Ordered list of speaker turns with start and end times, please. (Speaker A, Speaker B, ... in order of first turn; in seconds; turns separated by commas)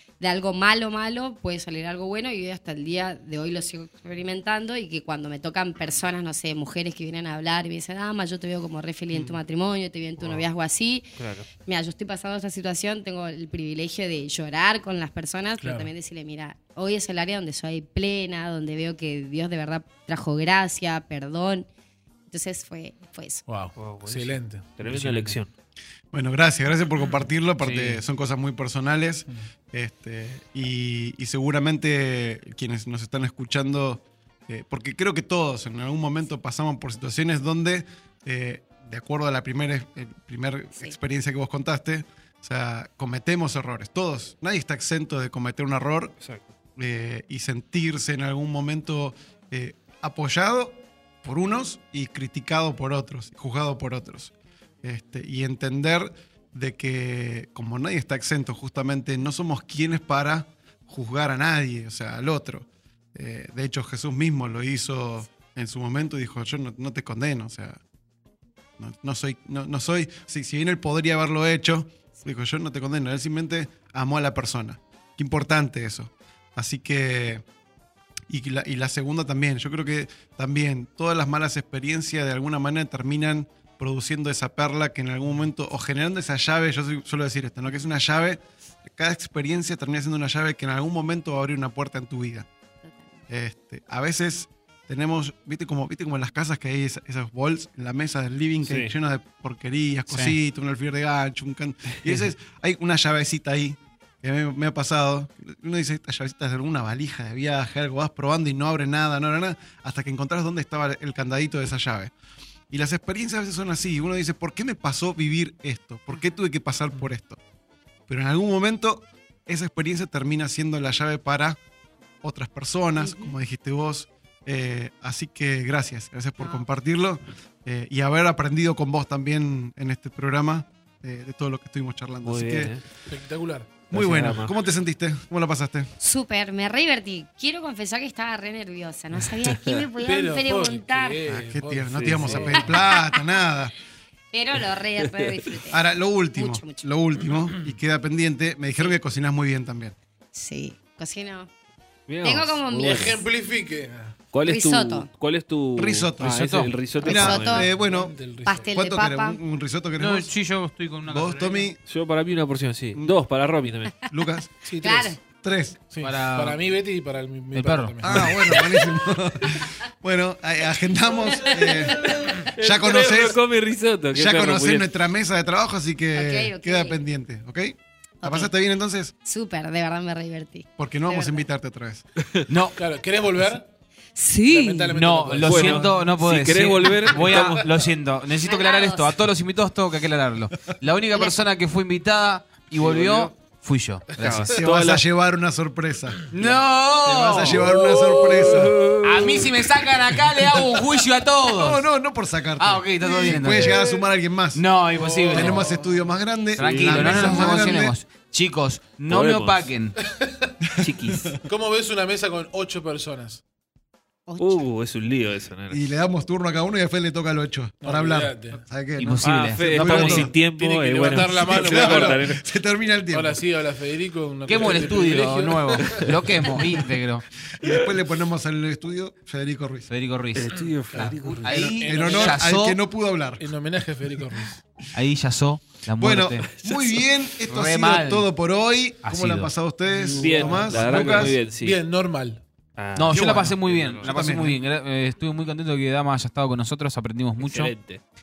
Speaker A: 0.2-11.1, Speaker B: 9.1-9.4, Speaker B: 10.2-10.4, Speaker B: 11.2-11.5, Speaker A: 11.6-21.7, Speaker C: 15.6-15.9, Speaker A: 22.3-23.4, Speaker C: 23.5-24.7, Speaker B: 23.8-25.5, Speaker D: 24.8-25.4, Speaker E: 26.1-46.2, Speaker D: 27.6-28.0, Speaker B: 46.2-46.5, Speaker E: 46.8-67.8, Speaker E: 68.8-77.4, Speaker E: 78.3-92.5, Speaker A: 92.8-93.2, Speaker E: 93.3-112.1, Speaker B: 98.6-98.9, Speaker D: 100.1-100.4, Speaker E: 112.7-117.4, Speaker A: 116.1-116.4, Speaker E: 118.1-121.6, Speaker E: 122.2-132.7, Speaker A: 123.0-123.4, Speaker A: 126.4-126.7, Speaker B: 132.2-132.8, Speaker C: 133.1-133.9, Speaker E: 133.9-135.9, Speaker B: 133.9-134.5, Speaker A: 136.0-141.2, Speaker C: 140.0-142.7, Speaker E: 141.3-143.7, Speaker B: 141.9-142.5, Speaker A: 142.5-143.2, Speaker A: 144.3-145.8, Speaker E: 145.7-149.9, Speaker A: 146.3-146.9, Speaker A: 150.3-151.5, Speaker B: 152.1-153.2, Speaker A: 152.2-153.3, Speaker C: 152.8-154.2, Speaker B: 154.3-157.7, Speaker A: 154.4-155.1, Speaker E: 155.8-158.2, Speaker D: 156.2-156.7, Speaker A: 157.0-157.7, Speaker C: 157.7-158.7, Speaker A: 158.4-159.4, Speaker E: 158.7-160.3, Speaker D: 160.0-161.7, Speaker E: 161.1-161.8, Speaker B: 161.9-163.9, Speaker E: 164.1-164.6, Speaker C: 164.6-165.2, Speaker A: 164.8-165.2, Speaker E: 165.4-165.8, Speaker C: 165.9-168.6, Speaker D: 166.0-166.6, Speaker D: 167.5-168.4, Speaker E: 168.0-173.4, Speaker A: 171.4-172.1, Speaker B: 172.5-174.9, Speaker E: 174.1-179.1, Speaker A: 176.1-177.0, Speaker A: 178.2-178.5, Speaker A: 179.2-181.5, Speaker E: 180.8-182.1, Speaker D: 182.5-182.8, Speaker C: 182.8-183.7, Speaker A: 184.2-184.9, Speaker C: 184.5-185.9, Speaker D: 184.9-194.6, Speaker B: 185.4-187.7, Speaker E: 185.5-186.1, Speaker C: 187.2-187.4, Speaker A: 188.4-189.1, Speaker B: 192.8-193.3, Speaker B: 194.2-195.0, Speaker E: 194.5-196.3, Speaker D: 196.3-197.7, Speaker E: 197.0-198.8, Speaker C: 197.7-198.5, Speaker B: 198.4-199.5, Speaker D: 199.0-201.8, Speaker E: 201.5-204.6, Speaker D: 202.6-203.8, Speaker C: 203.5-203.8, Speaker D: 204.5-205.7, Speaker C: 204.9-206.1, Speaker E: 205.3-207.9, Speaker D: 206.6-210.0, Speaker C: 206.8-207.4, Speaker B: 209.1-209.7, Speaker B: 210.8-211.4, Speaker C: 211.4-213.4, Speaker A: 214.3-214.7, Speaker B: 214.4-215.9, Speaker E: 215.7-220.3, Speaker C: 217.8-218.6, Speaker D: 219.0-220.3, Speaker B: 219.2-222.4, Speaker C: 220.4-222.3, Speaker E: 221.4-223.4, Speaker C: 223.1-226.4, Speaker D: 224.5-227.2, Speaker E: 227.6-229.9, Speaker B: 227.6-227.9, Speaker D: 229.9-232.8, Speaker B: 230.3-231.5, Speaker C: 230.9-232.5, Speaker E: 231.5-233.5, Speaker C: 233.4-234.6, Speaker D: 234.9-236.6, Speaker E: 236.0-241.4, Speaker D: 237.5-238.3, Speaker D: 239.1-239.5, Speaker C: 239.9-242.4, Speaker B: 240.0-241.8, Speaker B: 242.8-244.1, Speaker D: 242.9-247.7, Speaker E: 243.1-244.6, Speaker B: 247.4-248.0